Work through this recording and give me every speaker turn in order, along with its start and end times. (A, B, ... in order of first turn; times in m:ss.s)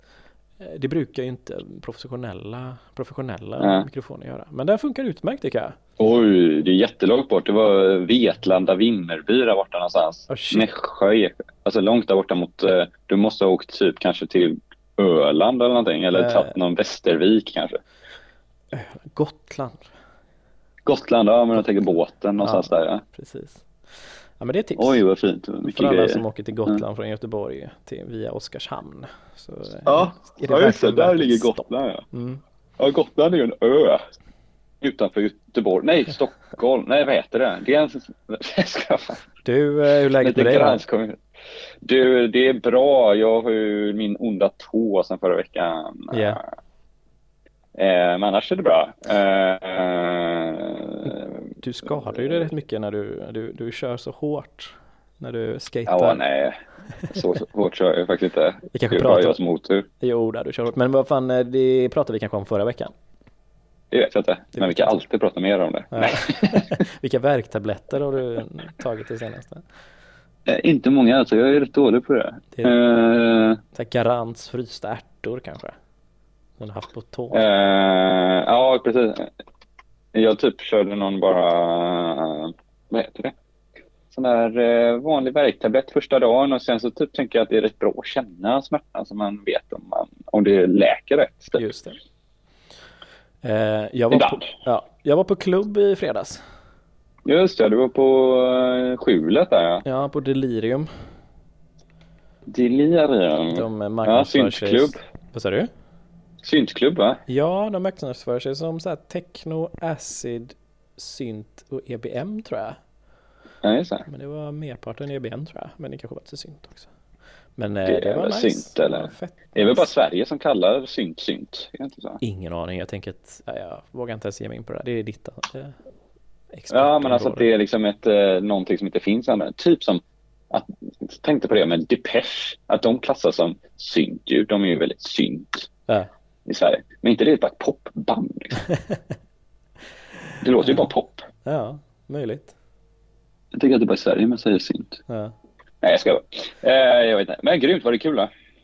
0:00.6-0:05.8 A
0:03.6-0:03.9 B
0:06.0-0:17.8 B
0:10.3-0:10.7 A
0:16.1-0:16.6 A
0:18.7-0:19.8 A
0:20.9-0:23.0 B
0:22.4-0:23.6 A
0:24.4-0:25.0 A
0:24.8-0:26.8 B
0:25.6-0:32.4 A
0:29.9-0:32.0 B
0:32.8-0:34.0 B
0:34.8-0:39.2 B
0:39.4-0:40.8 A
0:40.2-0:41.2 B
0:41.8-0:46.4 B
0:46.1-0:46.4 A
0:47.8-0:52.4 B
0:51.6-0:56.2 A
0:55.9-0:56.6 B
0:57.1-0:59.9 B
0:58.7-0:59.4 A
1:00.0-1:02.9 A
1:03.9-1:06.7 B
1:04.6-1:04.9 A
1:05.9-1:09.6 A
1:10.5-1:13.6 B
1:13.7-1:15.8 A
1:16.6-1:17.4 A
1:17.3-1:19.3 B
1:20.1-1:23.3 B
1:24.1-1:31.6 B
1:31.6-1:32.0 A
1:33.4-1:36.4 A
1:34.1-1:34.4 B
1:37.3-1:39.8 B
1:39.8-1:40.9 A
1:42.5-1:45.0 B
1:43.5-1:45.7 A
1:46.4-1:47.2 B
1:47.3-1:52.8 A
1:53.6-1:54.0 B
1:54.1-1:56.9 A
1:57.6-1:59.9 A
1:57.9-2:02.2 B
2:02.2-2:05.8 A
2:06.5-2:07.5 A
2:06.7-2:15.6 B
2:16.4-2:18.6 B
2:20.4-2:21.2 B
2:20.6-2:20.9 A
2:21.4-2:22.5 A
2:23.5-2:25.0 B
2:25.1-2:25.3 A
2:25.8-2:28.3 B